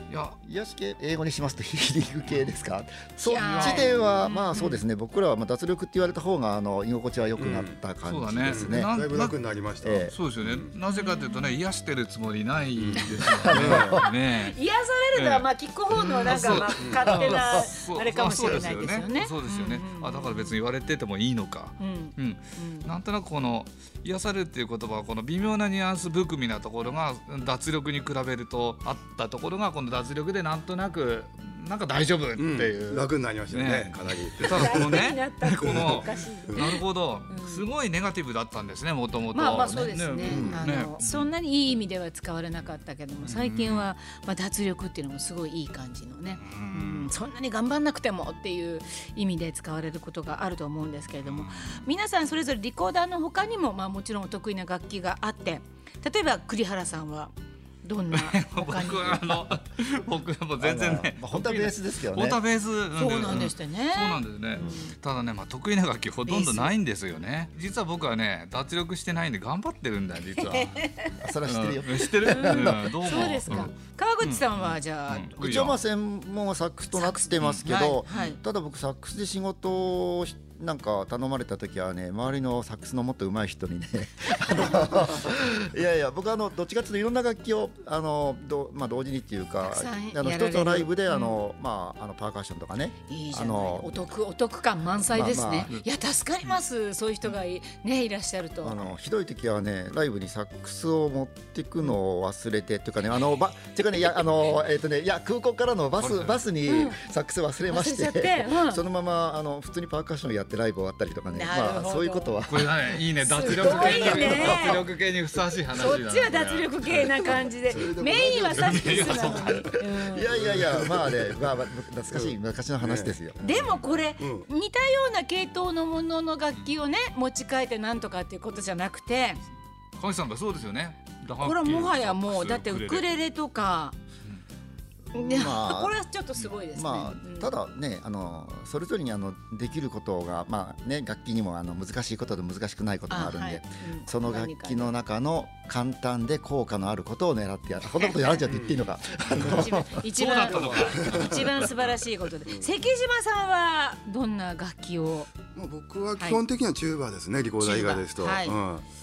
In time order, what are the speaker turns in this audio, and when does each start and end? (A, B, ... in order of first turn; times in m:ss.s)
0:00.1-0:00.4 A
0:00.4-0:08.9 B
0:03.2-0:04.8 C
0:03.3-0:04.0 A
0:07.4-0:07.8 D
0:08.0-0:09.4 A
0:08.5-0:10.7 D
0:09.8-0:10.1 B
0:10.1-0:14.6 A
0:10.9-0:11.6 C
0:12.8-0:14.0 D
0:13.3-0:14.0 B
0:14.0-0:20.6 C
0:15.1-0:15.5 A
0:16.0-0:41.3 A
0:16.7-0:17.1 D
0:17.2-0:17.5 B
0:21.8-0:22.9 C
0:32.4-0:36.6 D
0:34.5-0:37.6 C
0:39.3-0:59.3 C
0:40.2-0:40.6 D
0:43.2-0:43.9 A
0:46.4-0:47.1 A
0:51.2-0:51.8 A
0:58.1-1:10.9 A
1:00.6-1:02.4 B
1:03.0-1:04.9 C
1:06.3-1:06.7 C
1:11.2-1:13.7 B
1:11.4-1:15.8 A
1:12.3-1:15.4 C
1:15.4-1:34.0 B
1:16.9-1:18.4 C
1:17.4-1:17.7 A
1:29.6-1:31.4 C
1:33.1-1:38.8 C
1:35.1-1:35.7 B
1:35.4-1:35.8 A
1:38.6-1:52.7 B
1:46.0-1:46.4 A
1:46.7-1:47.0 C
1:47.7-1:48.8 C
1:51.3-1:52.4 C
1:52.4-1:57.4 A
1:53.2-1:54.9 C
1:53.5-1:54.8 B
1:55.7-2:00.3 C
1:57.7-1:59.7 D
1:58.5-1:59.6 A
1:59.8-2:03.4 B
2:00.3-2:04.5 D
2:03.4-2:09.4 C
2:10.0-2:13.0 A
2:11.4-2:14.0 C
2:15.1-2:16.0 B
2:15.1-2:17.5 C
2:16.7-2:30.1 B
2:23.1-2:24.9 C
2:28.5-2:28.8 D
2:29.3-2:35.3 C
2:30.2-2:32.0 A
2:31.0-2:31.4 D
2:35.5-2:38.8 D
2:37.6-2:38.6 C